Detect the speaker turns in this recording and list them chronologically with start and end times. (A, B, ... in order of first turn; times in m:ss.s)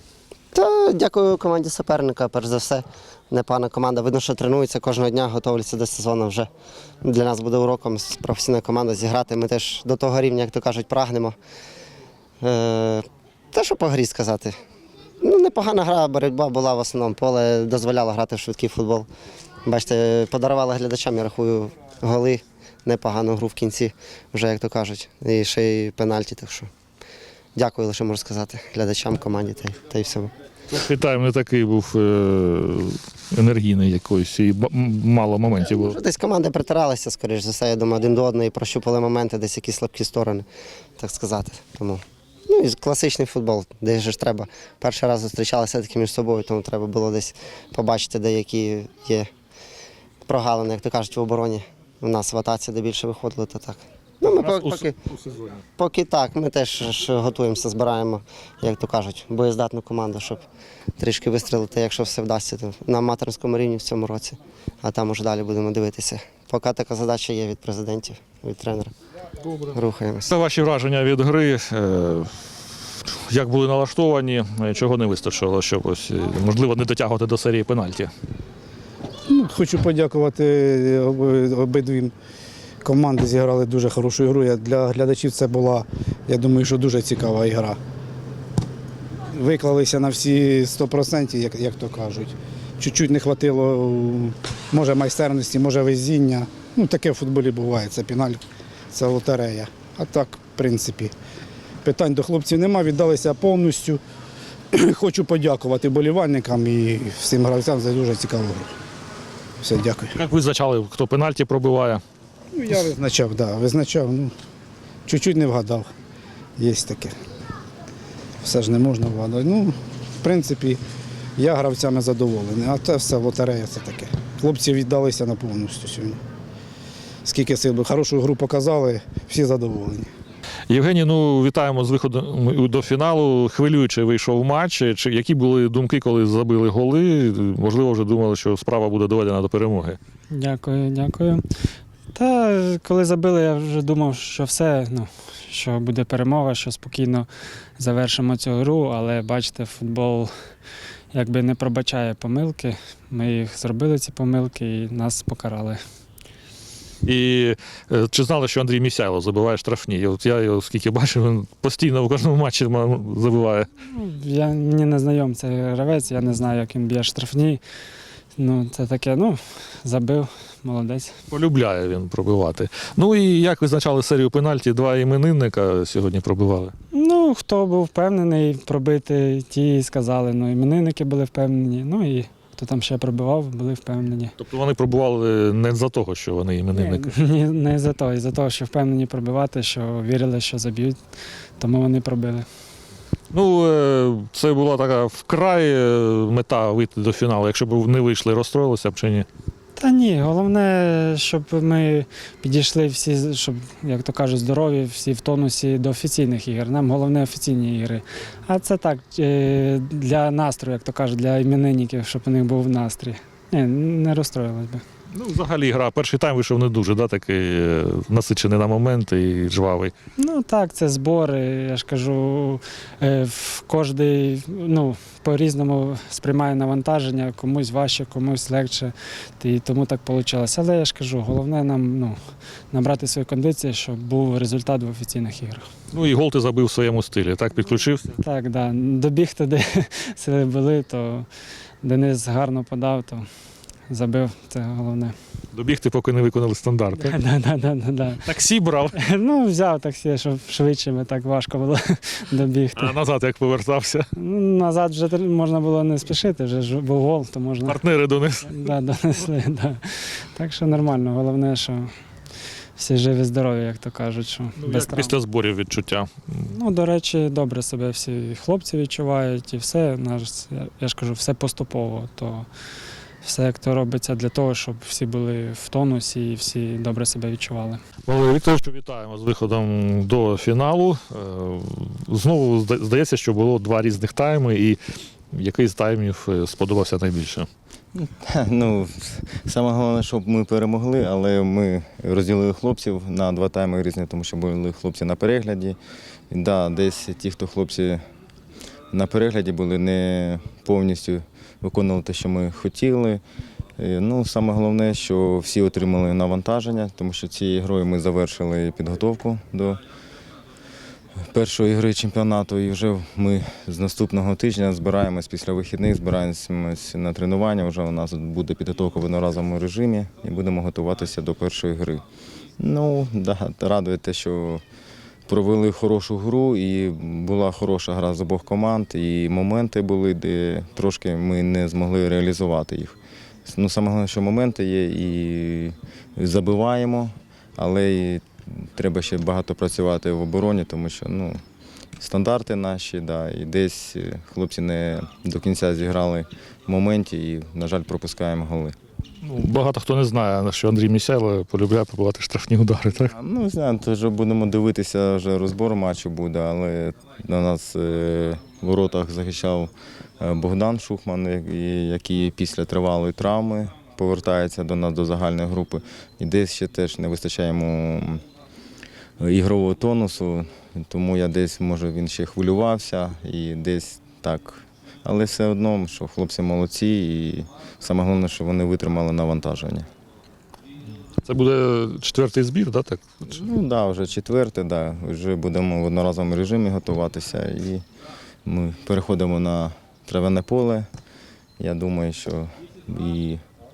0:00.5-0:06.5 A
0:07.0-0:11.3 A
0:12.4-0:14.6 A
0:15.2-0:19.1 A
0:19.6-0:26.7 A
0:27.5-0:30.3 A
0:30.7-0:36.0 B
0:35.6-0:40.4 A
0:41.0-0:49.3 A
0:50.2-0:54.9 A
0:54.2-0:55.6 B
0:55.8-1:00.4 A
1:01.0-1:08.9 A
1:09.4-1:18.1 B
1:09.7-1:10.3 A
1:19.3-1:22.1 C
1:22.8-1:27.8 C
1:29.3-1:38.4 C
1:38.9-1:41.1 C
1:41.8-1:44.0 C
1:44.7-1:48.7 C
1:49.6-1:50.1 C
1:50.2-1:52.0 B
1:52.5-1:54.3 C
1:55.0-1:55.9 C
1:56.6-1:57.1 C
1:58.4-2:00.8 C
2:01.4-2:06.2 C
2:07.2-2:10.1 C
2:10.7-2:20.0 B
2:20.3-2:21.4 D
2:22.1-2:30.3 D
2:31.1-2:35.8 D
2:37.0-2:43.7 B
2:43.9-2:47.6 D
2:48.4-2:51.1 D
2:51.3-2:56.7 B
2:56.9-3:04.3 D
3:04.4-3:07.1 B
3:06.7-3:11.0 D
3:11.6-3:12.4 D
3:13.3-3:19.3 B
3:19.8-3:34.8 D
3:35.1-3:39.9 B
3:40.2-3:52.2 D
3:52.7-3:55.6 D
3:55.9-3:58.2 B
3:58.2-4:01.3 D
4:01.8-4:03.2 D
4:03.9-4:05.1 D
4:05.5-4:07.2 B
4:07.0-4:08.2 D
4:08.2-4:09.0 B
4:08.9-4:13.0 D
4:12.8-4:14.1 B
4:14.1-4:17.8 D
4:17.6-4:18.7 B
4:18.5-4:21.9 D
4:22.8-4:25.2 D
4:24.6-4:26.5 B
4:26.5-4:32.5 D
4:33.2-4:37.8 D
4:38.0-4:44.8 B
4:45.3-4:47.5 B
4:47.9-4:55.8 E
4:56.3-4:58.0 E
4:58.9-5:03.2 E
5:03.8-5:09.8 E
5:11.3-5:22.0 E
5:22.6-5:24.6 E
5:25.3-5:32.9 E
5:33.4-5:41.4 E
5:42.0-5:48.8 E
5:49.2-5:53.1 B
5:53.1-6:08.2 E
6:09.2-6:19.9 E
6:21.2-6:23.3 B
6:23.3-6:27.8 E
6:28.4-6:30.9 E
6:31.6-6:33.4 E